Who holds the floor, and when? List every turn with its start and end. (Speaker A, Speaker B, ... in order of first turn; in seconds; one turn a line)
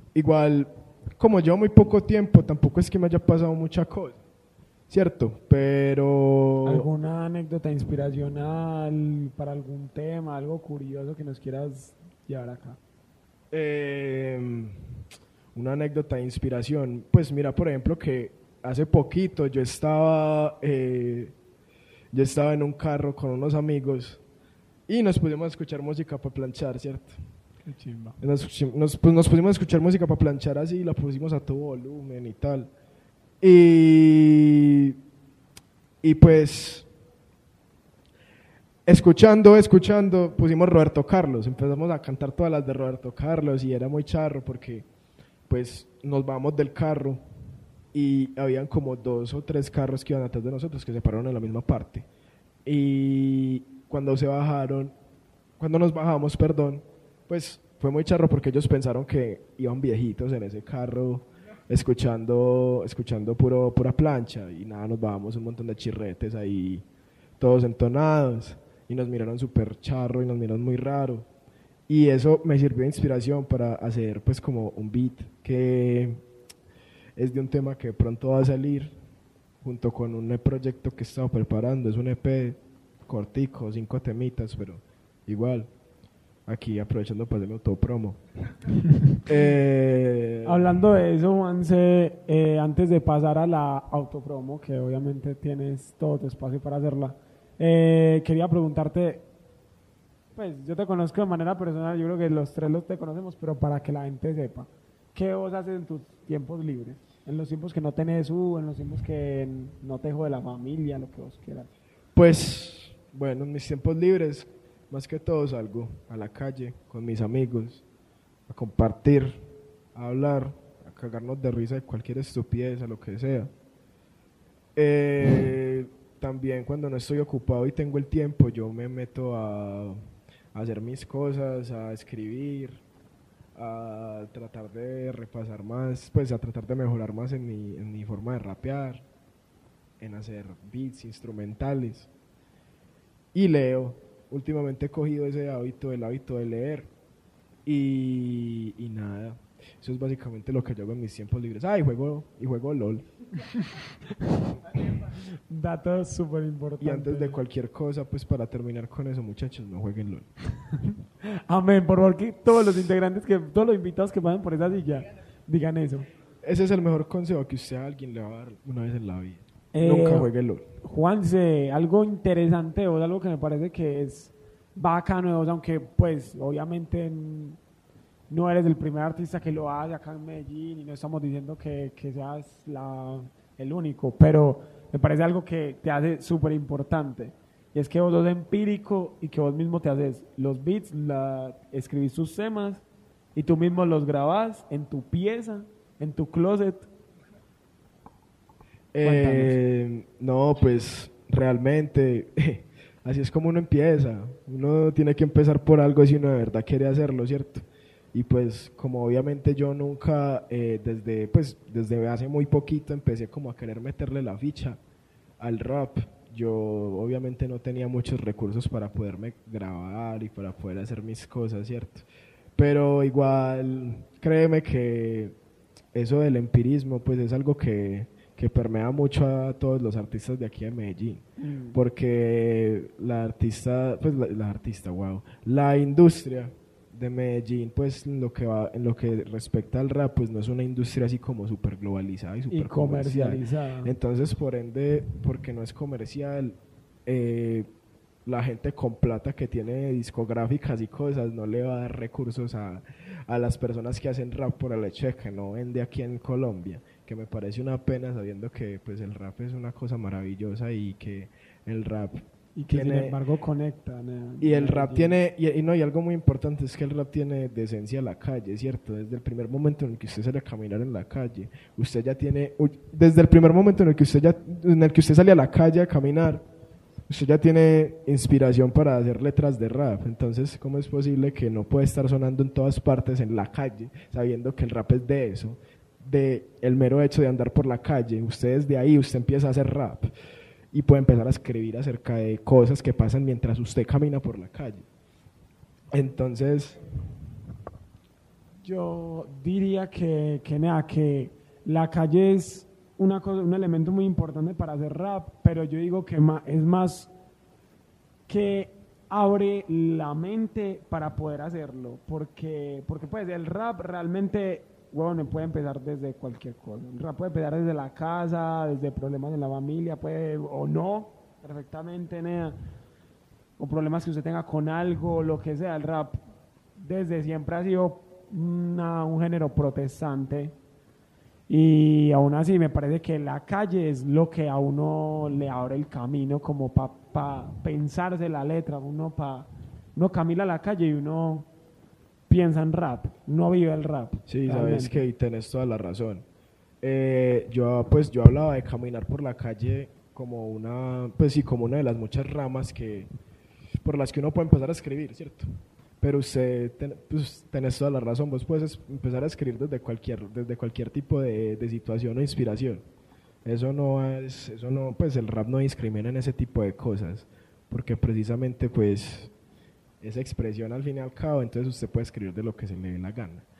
Speaker A: 0.1-4.2
Speaker A: 4.9-6.9
Speaker B: 6.6-12.8
Speaker A: 13.5-14.9
Speaker A: 15.5-21.3
Speaker A: 22.1-24.2
Speaker A: 24.9-27.2
Speaker B: 27.6-28.2
Speaker A: 28.2-32.7
Speaker A: 33.4-35.0
Speaker A: 36.0-36.9
Speaker A: 38.9-44.9
Speaker A: 45.5-47.2
Speaker A: 47.9-52.1
Speaker A: 52.6-54.9
Speaker A: 55.6-66.8
Speaker A: 67.4-71.3
Speaker A: 71.9-76.2
Speaker A: 77.2-79.0
Speaker A: 79.6-85.7
Speaker A: 86.5-88.2
Speaker A: 89.2-90.7
Speaker B: 90.4-99.2
Speaker B: 100.3-111.7
Speaker A: 112.1-117.8
Speaker A: 118.5-123.5
Speaker A: 124.8-130.0
Speaker A: 130.5-132.8
Speaker A: 133.5-139.0
Speaker A: 140.0-142.1
Speaker A: 143.3-146.9
Speaker A: 147.6-153.1
Speaker B: 155.1-157.4
Speaker A: 156.8-160.3
Speaker B: 161.2-166.1
Speaker A: 166.4-170.7
Speaker B: 169.7-170.3
Speaker B: 170.8-177.6
Speaker B: 178.3-192.8
Speaker B: 193.3-196.9
Speaker A: 198.9-214.8
Speaker B: 199.0-199.6
Speaker A: 215.4-225.3
Speaker A: 225.9-247.7
Speaker B: 231.4-231.8
Speaker B: 242.5-243.9
Speaker A: 248.2-263.2
Speaker B: 262.6-265.2
Speaker A: 264.4-276.4
Speaker A: 277.1-290.1
Speaker A: 290.7-294.9
Speaker A: 295.9-296.8
Speaker B: 298.6-307.1
Speaker B: 308.3-322.6
Speaker B: 323.6-326.2
Speaker B: 326.8-330.5
Speaker B: 331.5-341.5
Speaker B: 342.3-345.0
Speaker A: 344.3-346.2
Speaker A: 346.8-353.1
Speaker A: 353.8-362.8
Speaker A: 363.4-369.3
Speaker A: 370.0-373.4